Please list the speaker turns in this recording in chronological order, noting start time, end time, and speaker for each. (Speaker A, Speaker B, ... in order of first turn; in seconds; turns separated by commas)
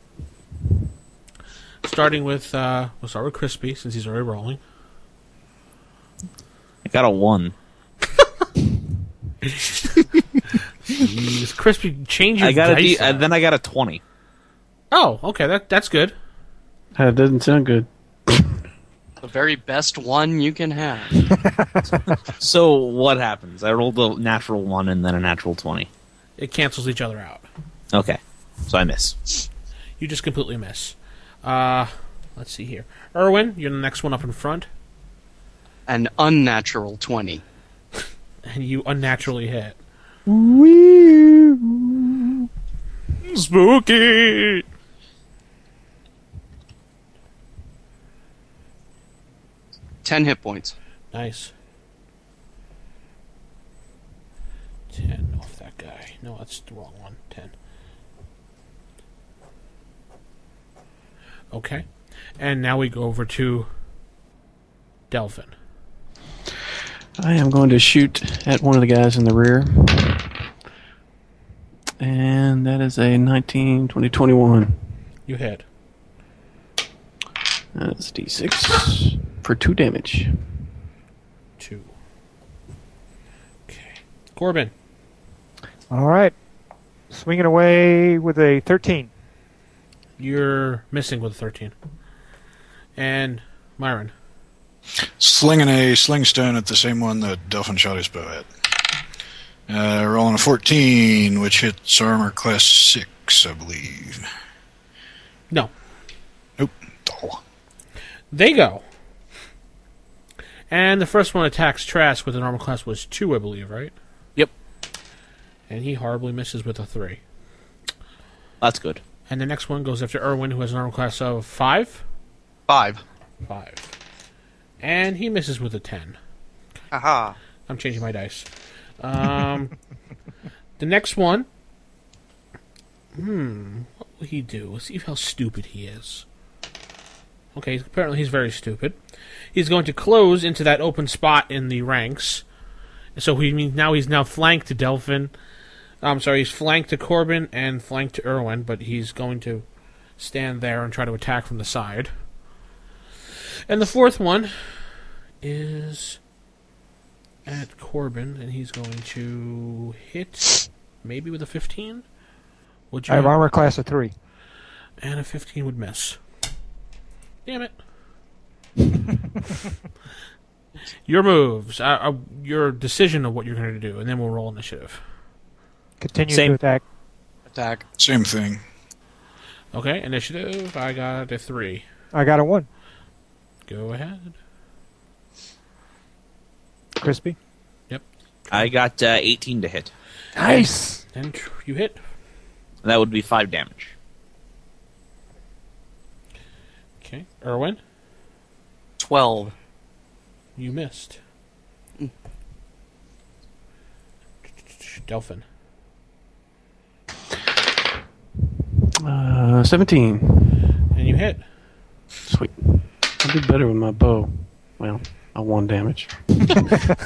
Speaker A: 1.8-4.6, Speaker B: 6.8-7.5, Speaker A: 9.4-10.1, Speaker A: 10.9-13.3, Speaker B: 12.4-14.0, Speaker A: 14.9-16.1, Speaker C: 16.9-18.5, Speaker D: 19.2-21.3, Speaker B: 21.8-25.9, Speaker A: 26.4-27.4, Speaker B: 27.9-29.5, Speaker A: 30.0-34.7, Speaker D: 35.9-37.4, Speaker A: 38.5-39.8, Speaker E: 40.3-42.5, Speaker D: 50.0-50.8, Speaker A: 51.1-51.5, Speaker A: 54.9-57.5, Speaker A: 61.5-63.7, Speaker A: 65.1-65.5, Speaker C: 67.2-70.3, Speaker C: 72.0-74.8, Speaker A: 75.3-75.6, Speaker C: 77.8-80.5, Speaker A: 81.6-81.9, Speaker A: 83.7-84.7, Speaker E: 85.9-86.3, Speaker E: 87.1-89.1, Speaker A: 90.2-91.7, Speaker A: 93.0-94.1, Speaker F: 95.2-98.5, Speaker F: 99.7-104.3, Speaker F: 106.6-107.4, Speaker A: 108.3-108.8, Speaker A: 110.7-113.9, Speaker A: 115.7-117.2, Speaker B: 118.6-119.0, Speaker A: 119.3-122.0, Speaker D: 122.7-123.0, Speaker A: 123.5-123.9, Speaker A: 124.8-126.2, Speaker D: 126.9-127.4, Speaker A: 127.7-128.5, Speaker A: 129.0-129.7, Speaker A: 130.8-131.5, Speaker A: 133.2-136.2, Speaker A: 137.6-139.0, Speaker A: 139.5-142.4, Speaker A: 143.2-145.3, Speaker A: 146.0-149.7, Speaker A: 150.2-152.1, Speaker A: 153.7-156.2, Speaker A: 157.5-162.0, Speaker A: 162.9-163.3, Speaker E: 163.1-164.1, Speaker A: 165.0-166.2, Speaker A: 167.5-167.7, Speaker A: 171.1-175.0, Speaker E: 176.0-176.8, Speaker D: 177.5-177.8, Speaker F: 178.0-178.6, Speaker A: 179.7-181.8, Speaker E: 182.1-182.7, Speaker A: 183.7-184.4, Speaker E: 187.0-187.4, Speaker A: 187.9-188.7, Speaker B: 188.5-189.9, Speaker E: 190.3-191.0, Speaker A: 190.5-192.0, Speaker B: 192.8-193.9, Speaker A: 197.0-197.8, Speaker D: 199.0-199.5, Speaker A: 200.6-201.2, Speaker A: 204.7-205.4, Speaker C: 209.0-210.8, Speaker A: 210.9-211.4, Speaker C: 212.2-216.9